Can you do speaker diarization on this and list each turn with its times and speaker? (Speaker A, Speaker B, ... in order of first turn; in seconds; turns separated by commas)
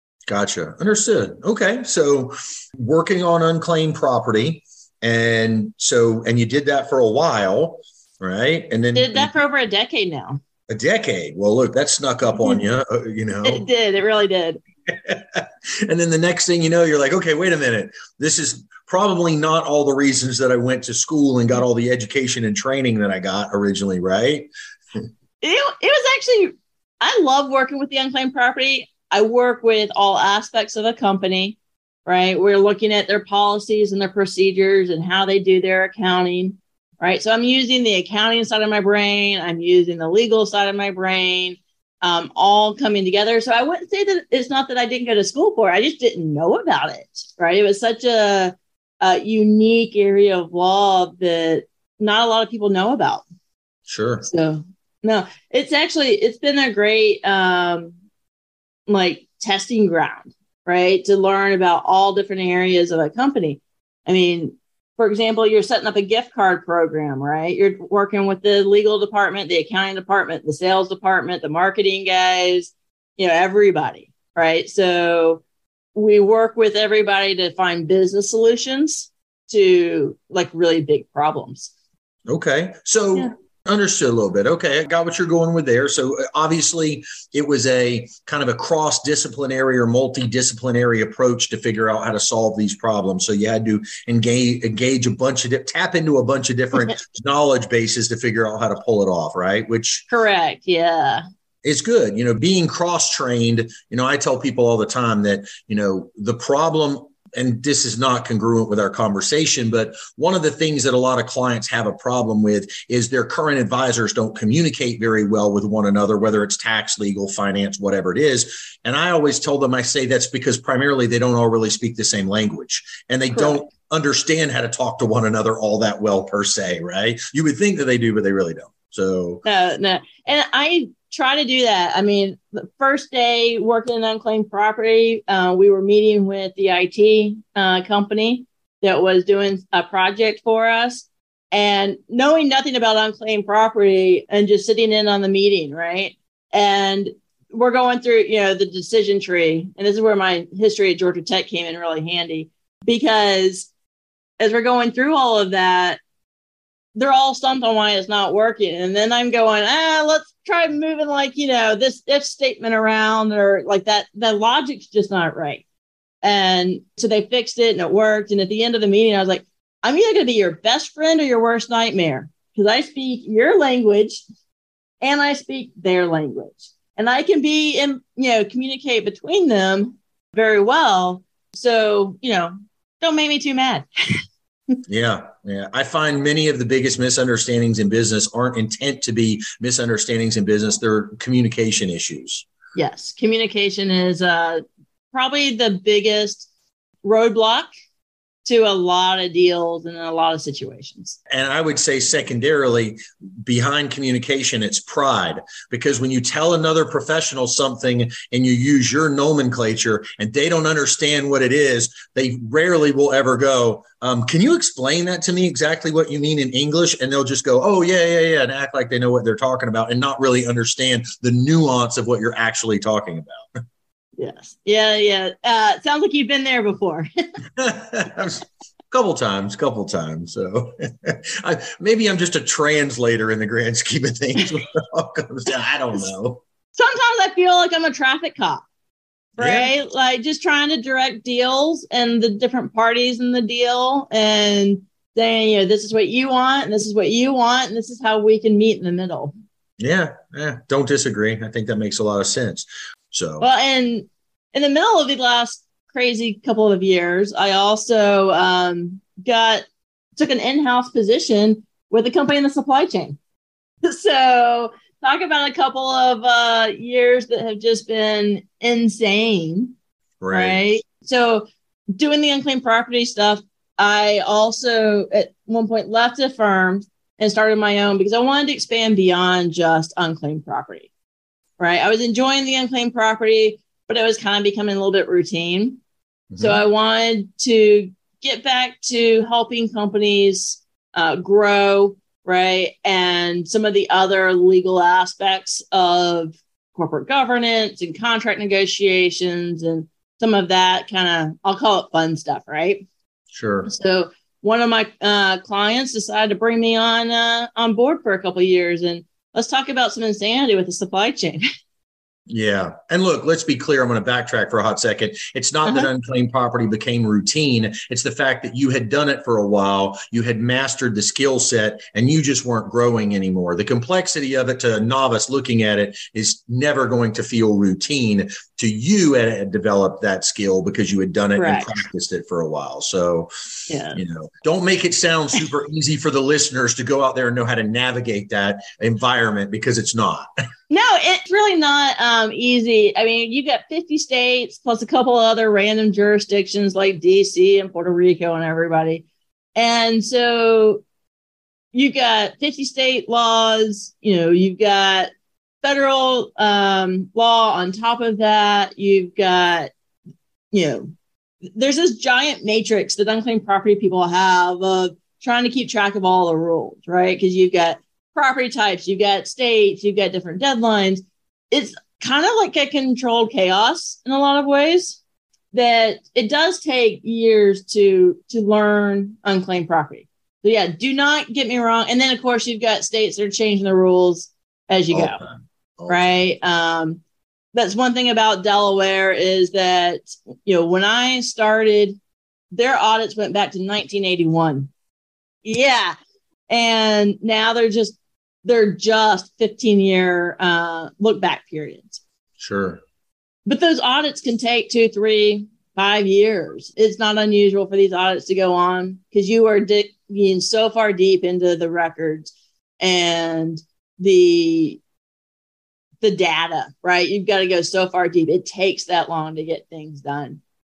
Speaker A: 0.3-9.3, Speaker B: 8.9-10.4, Speaker A: 10.7-13.6, Speaker B: 13.4-14.6, Speaker A: 14.9-25.1, Speaker B: 25.4-53.2, Speaker A: 53.9-54.3, Speaker B: 54.2-58.0, Speaker B: 58.9-75.4, Speaker B: 76.0-81.7, Speaker A: 82.3-100.1, Speaker B: 100.1-101.2, Speaker A: 101.6-129.4, Speaker B: 123.3-123.6, Speaker B: 129.4-153.7, Speaker B: 154.4-156.0, Speaker B: 157.0-165.6, Speaker B: 166.2-174.2, Speaker B: 175.0-184.2, Speaker A: 184.9-192.5, Speaker B: 192.8-196.5, Speaker B: 197.0-197.7, Speaker B: 198.4-201.2, Speaker A: 201.3-223.6, Speaker B: 224.2-227.1, Speaker A: 227.6-236.4, Speaker B: 236.8-238.6, Speaker B: 239.4-249.3, Speaker A: 239.4-239.7, Speaker A: 249.8-253.5, Speaker B: 253.4-259.6, Speaker B: 260.2-263.2, Speaker B: 263.8-269.7, Speaker A: 270.2-270.6, Speaker B: 270.3-280.9, Speaker B: 281.6-285.8, Speaker A: 286.3-286.6, Speaker B: 286.4-302.9, Speaker A: 303.3-303.7, Speaker B: 303.7-311.5, Speaker A: 312.3-333.3, Speaker B: 331.4-331.8, Speaker B: 333.7-334.0, Speaker A: 333.9-340.3, Speaker B: 340.7-349.0, Speaker B: 349.6-350.8, Speaker B: 351.7-355.1, Speaker B: 355.6-359.7, Speaker B: 360.5-360.9, Speaker B: 361.6-375.0, Speaker B: 375.5-385.2, Speaker A: 384.9-386.1, Speaker B: 385.9-387.0, Speaker B: 387.5-392.0, Speaker B: 392.5-394.7, Speaker B: 395.4-395.9, Speaker B: 396.5-402.0, Speaker A: 402.4-402.8, Speaker B: 403.5-414.8, Speaker B: 416.0-420.4